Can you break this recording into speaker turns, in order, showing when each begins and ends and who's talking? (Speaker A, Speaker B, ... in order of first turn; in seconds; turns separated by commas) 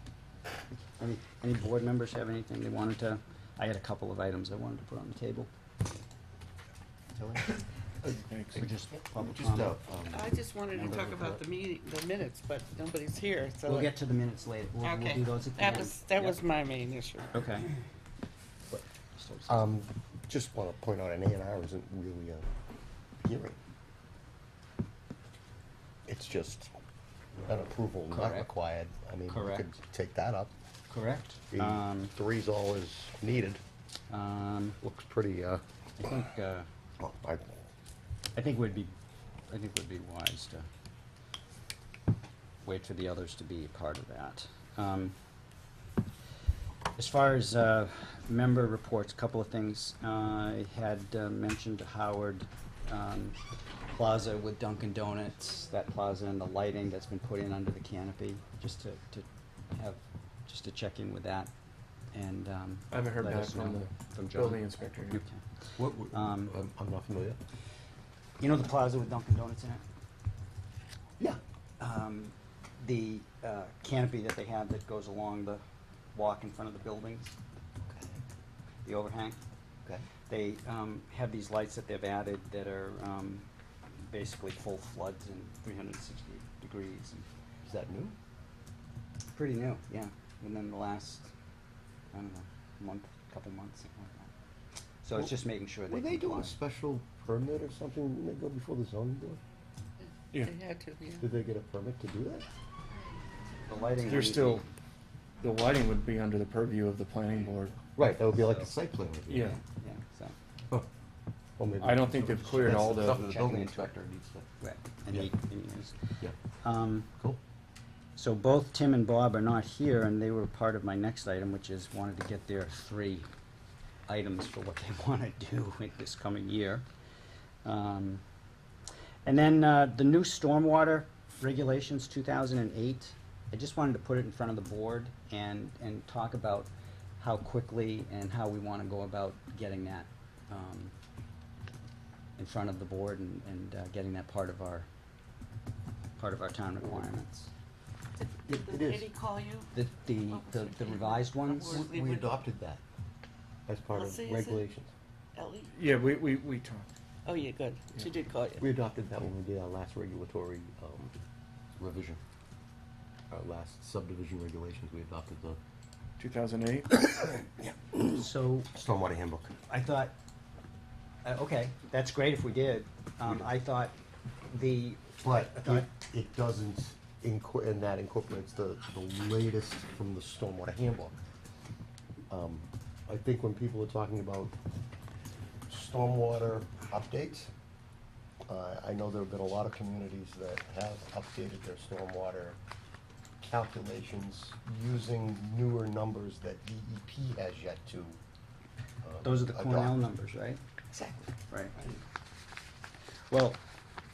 Speaker A: 1.0-5.5, Speaker B: 7.1-7.5, Speaker C: 8.0-8.6, Speaker A: 8.5-9.8, Speaker B: 8.5-11.3, Speaker D: 10.1-13.9, Speaker A: 10.8-11.3, Speaker A: 13.7-16.4, Speaker D: 14.8-17.3, Speaker A: 17.3-17.7, Speaker A: 18.7-19.6, Speaker B: 19.5-22.4, Speaker B: 23.2-23.6, Speaker B: 26.1-26.7, Speaker B: 27.4-30.5, Speaker A: 28.1-28.5, Speaker A: 29.3-29.6, Speaker A: 30.9-32.1, Speaker B: 31.5-33.6, Speaker A: 34.1-34.8, Speaker B: 34.8-35.6, Speaker A: 36.0-36.7, Speaker B: 37.0-37.7, Speaker A: 38.4-38.9, Speaker A: 39.5-40.6, Speaker A: 42.6-45.1, Speaker A: 47.0-53.4, Speaker A: 53.9-61.5, Speaker A: 62.1-65.4, Speaker C: 62.9-65.2, Speaker B: 65.8-67.4, Speaker A: 66.0-66.5, Speaker A: 68.4-69.8, Speaker A: 71.8-75.6, Speaker A: 76.1-77.4, Speaker B: 77.8-78.2, Speaker A: 78.8-79.4, Speaker A: 80.3-87.2, Speaker B: 87.6-88.1, Speaker A: 89.3-91.3, Speaker A: 92.1-94.3, Speaker A: 95.0-96.5, Speaker B: 95.9-99.4, Speaker D: 100.3-101.2, Speaker B: 101.2-102.5, Speaker A: 103.6-104.7, Speaker C: 104.0-104.6, Speaker C: 105.4-107.8, Speaker B: 107.9-109.5, Speaker A: 108.3-108.7, Speaker C: 109.3-109.5, Speaker A: 109.3-110.3, Speaker B: 111.6-114.5, Speaker C: 111.8-113.2, Speaker A: 112.6-113.9, Speaker A: 114.6-116.0, Speaker A: 116.6-117.1, Speaker A: 118.2-123.2, Speaker A: 124.0-126.8, Speaker A: 127.6-128.2, Speaker A: 129.2-140.9, Speaker A: 142.4-144.9, Speaker A: 146.2-147.5, Speaker D: 148.3-152.3, Speaker B: 148.5-149.1, Speaker A: 149.7-151.8, Speaker B: 151.6-152.8, Speaker B: 153.7-154.9, Speaker D: 153.9-154.7, Speaker D: 155.3-155.7, Speaker C: 155.7-156.9, Speaker D: 157.2-158.6, Speaker B: 158.6-161.1, Speaker B: 161.8-162.2, Speaker B: 163.3-165.6, Speaker C: 166.2-166.9, Speaker B: 167.0-169.5, Speaker A: 168.1-168.7, Speaker A: 169.7-170.1, Speaker A: 171.2-173.9, Speaker A: 174.5-175.9, Speaker B: 175.2-181.2, Speaker B: 182.3-184.5, Speaker B: 185.7-187.5, Speaker B: 188.5-192.6, Speaker B: 193.4-198.2, Speaker B: 199.0-200.0, Speaker A: 199.2-200.6, Speaker B: 200.9-202.0, Speaker A: 201.5-201.8, Speaker A: 203.3-203.6